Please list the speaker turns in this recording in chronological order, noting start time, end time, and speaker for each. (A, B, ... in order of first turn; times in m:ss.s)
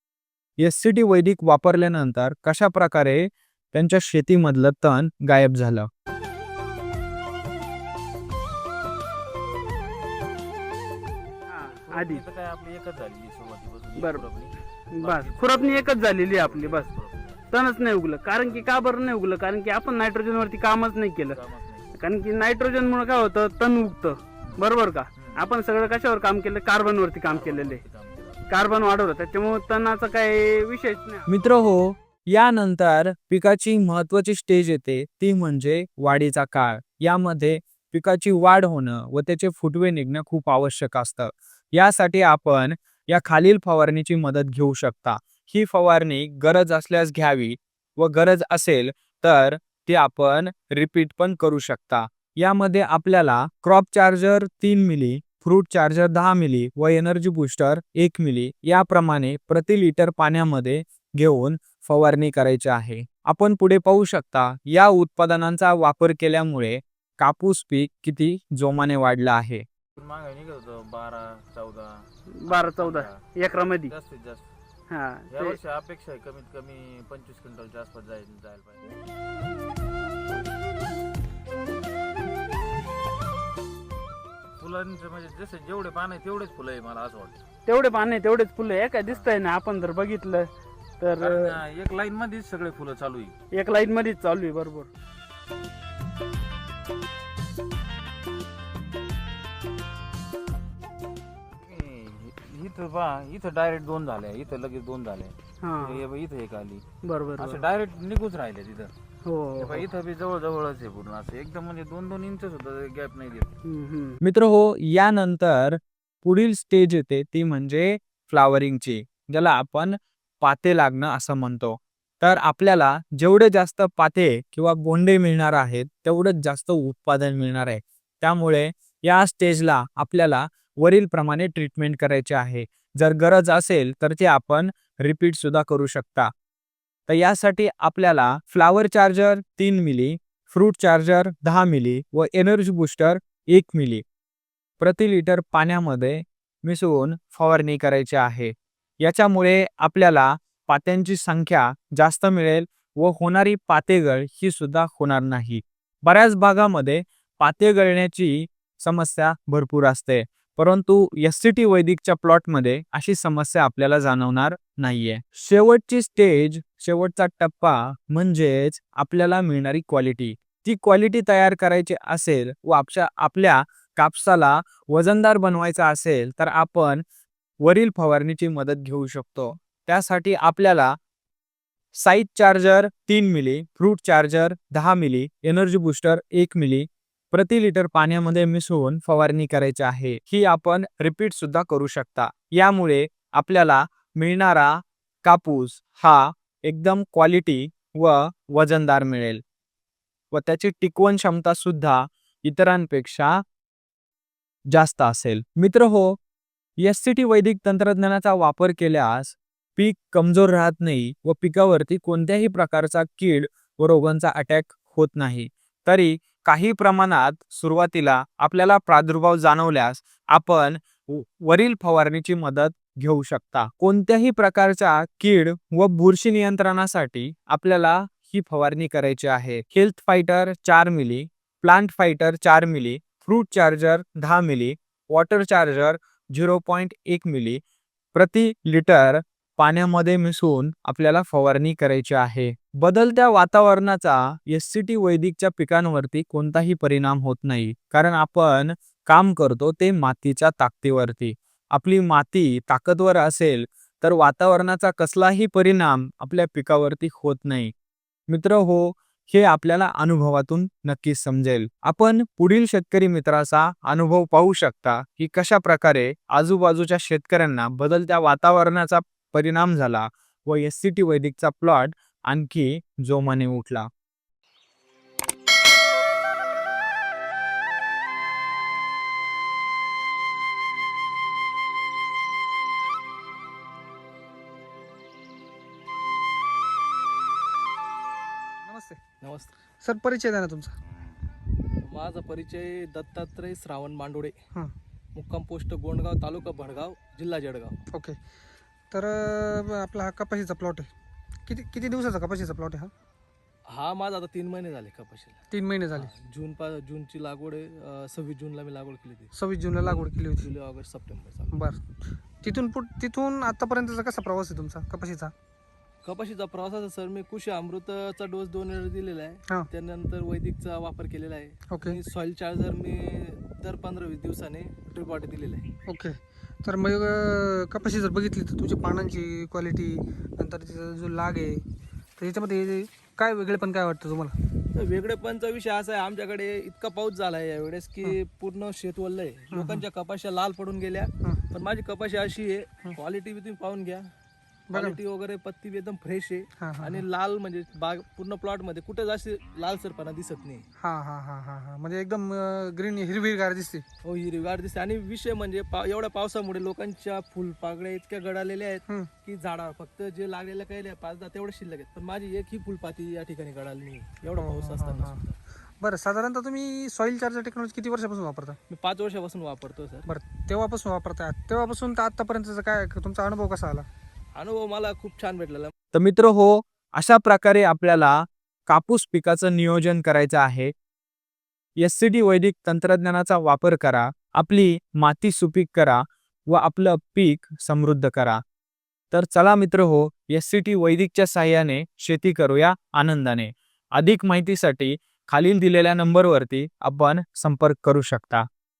0:00.6-0:05.9 A
0:11.5-0:12.2 B
0:11.6-0:17.5 C
0:14.0-0:14.2 B
0:14.9-0:16.9 B
0:17.5-0:21.4 B
0:18.4-0:18.8 C
0:21.2-0:22.0 C
0:22.0-0:27.8 B
0:24.4-0:24.6 C
0:25.2-0:25.5 C
0:27.3-0:28.5 C
0:28.5-0:31.3 B
0:31.3-1:09.6 A
1:10.0-1:13.3 C
1:12.4-1:13.9 B
1:13.8-1:14.4 C
1:14.9-1:15.6 B
1:15.3-1:18.8 C
1:24.6-1:27.4 C
1:27.6-1:31.6 B
1:29.1-1:29.3 C
1:31.2-1:33.3 C
1:33.5-1:34.9 B
1:41.6-1:46.8 C
1:45.6-1:46.0 B
1:47.0-1:47.6 B
1:47.4-1:48.9 C
1:49.2-1:49.8 B
1:49.6-1:53.5 C
1:53.6-1:54.2 B
1:54.2-2:16.3 A
2:17.1-2:24.0 A
2:24.8-2:57.0 A
2:57.6-3:01.0 A
3:01.9-3:19.4 A
3:20.3-3:23.4 A
3:24.7-3:26.2 A
3:26.8-3:57.6 A
3:58.1-4:17.7 A
4:18.3-4:33.9 A
4:48.6-4:49.0 D
4:49.2-4:49.5 E
4:49.8-4:50.7 D
4:51.8-4:54.4 E
4:55.1-4:57.8 E
4:57.9-4:58.2 D
4:58.9-5:00.9 D
5:01.5-5:02.9 D
5:03.7-5:11.5 E
5:05.5-5:06.1 D
5:09.3-5:10.5 D
5:11.5-5:11.8 D
5:12.4-5:15.3 D
5:16.0-5:25.7 E
5:21.7-5:22.0 D
5:25.9-5:31.6 D
5:32.2-5:34.3 D
5:34.7-5:44.1 E
5:39.5-5:39.8 D
5:44.7-5:45.0 D
5:44.7-5:50.7 E
5:46.6-5:47.0 D
5:50.8-5:53.8 D
5:54.0-6:05.3 E
6:04.4-6:05.2 D
6:05.8-6:08.6 D
6:08.7-6:10.1 E
6:10.1-6:13.8 D
6:14.3-6:15.7 E
6:15.9-6:20.7 A
6:21.8-6:28.4 A
6:29.1-6:38.5 A